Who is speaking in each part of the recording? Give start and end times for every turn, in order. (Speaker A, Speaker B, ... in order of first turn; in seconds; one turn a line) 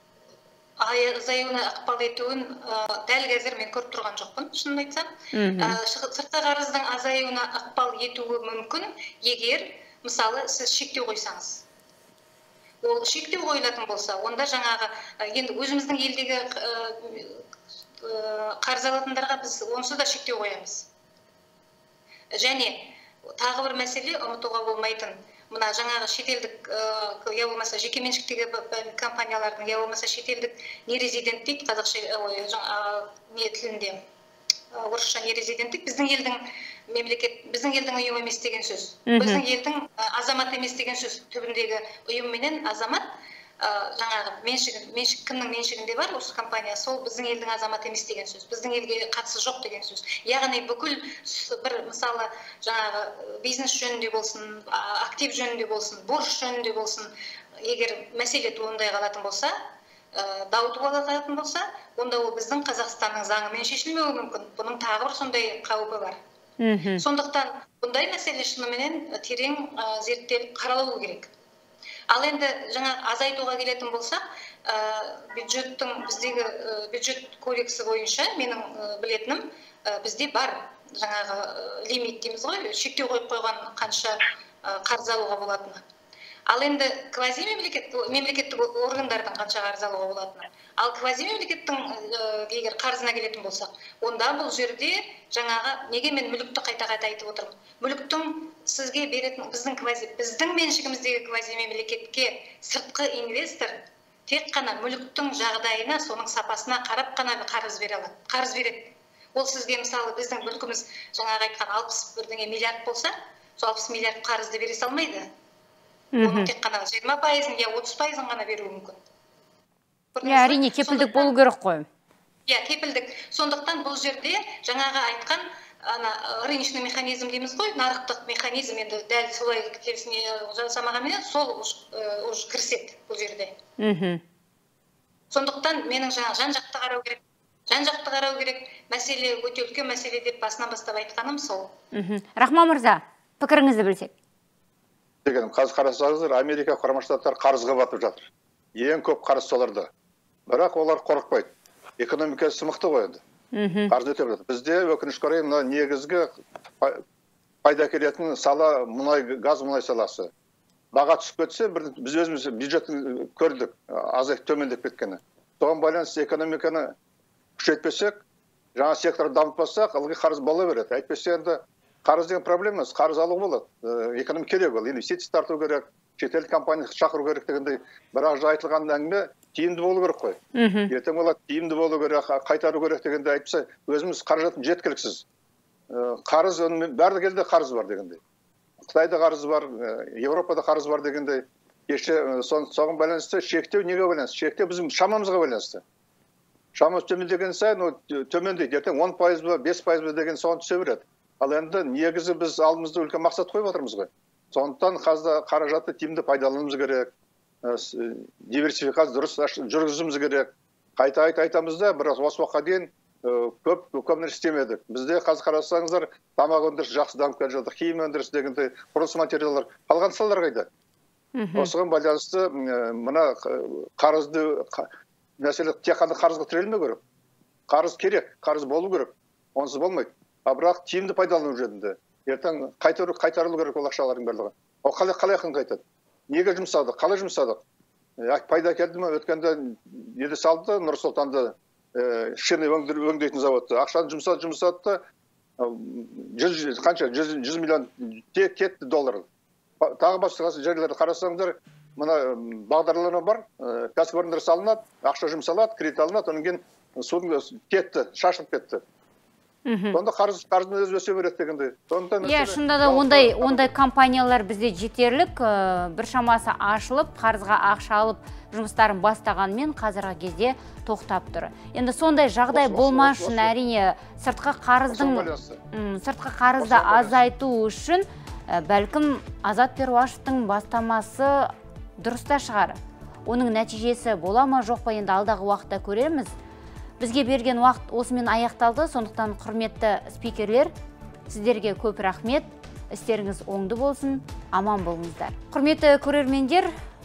Speaker A: 0.8-11.6
Speaker B: 5.3-5.8
Speaker A: 12.8-17.4
Speaker A: 18.0-20.9
Speaker A: 22.4-34.0
Speaker A: 34.7-43.1
Speaker B: 39.1-39.4
Speaker A: 43.6-59.5
Speaker A: 60.1-66.2
Speaker B: 66.6-67.0
Speaker A: 67.0-71.3
Speaker A: 72.1-85.8
Speaker A: 86.5-115.3
Speaker B: 116.1-116.5
Speaker A: 116.2-119.0
Speaker A: 120.1-121.3
Speaker B: 120.2-121.9
Speaker A: 122.5-133.6
Speaker B: 133.8-134.2
Speaker A: 135.3-141.7
Speaker B: 141.9-144.1
Speaker C: 145.2-149.9
Speaker C: 150.5-153.2
Speaker B: 153.5-153.9
Speaker C: 153.9-157.0
Speaker C: 157.6-160.3
Speaker C: 160.9-166.9
Speaker C: 167.6-168.2
Speaker C: 168.8-180.4
Speaker B: 180.6-180.9
Speaker C: 180.9-185.2
Speaker C: 185.9-188.2
Speaker C: 188.8-195.8
Speaker C: 196.8-207.1
Speaker C: 207.6-220.7
Speaker B: 221.4-221.7
Speaker C: 221.6-227.0
Speaker C: 227.7-237.6
Speaker C: 238.2-245.0
Speaker C: 245.6-249.3
Speaker C: 249.8-258.8
Speaker B: 259.7-260.0
Speaker C: 259.9-263.7
Speaker B: 262.2-286.3
Speaker C: 272.5-273.5
Speaker C: 274.9-275.6
Speaker C: 276.6-277.2
Speaker B: 287.0-290.7
Speaker B: 291.3-296.7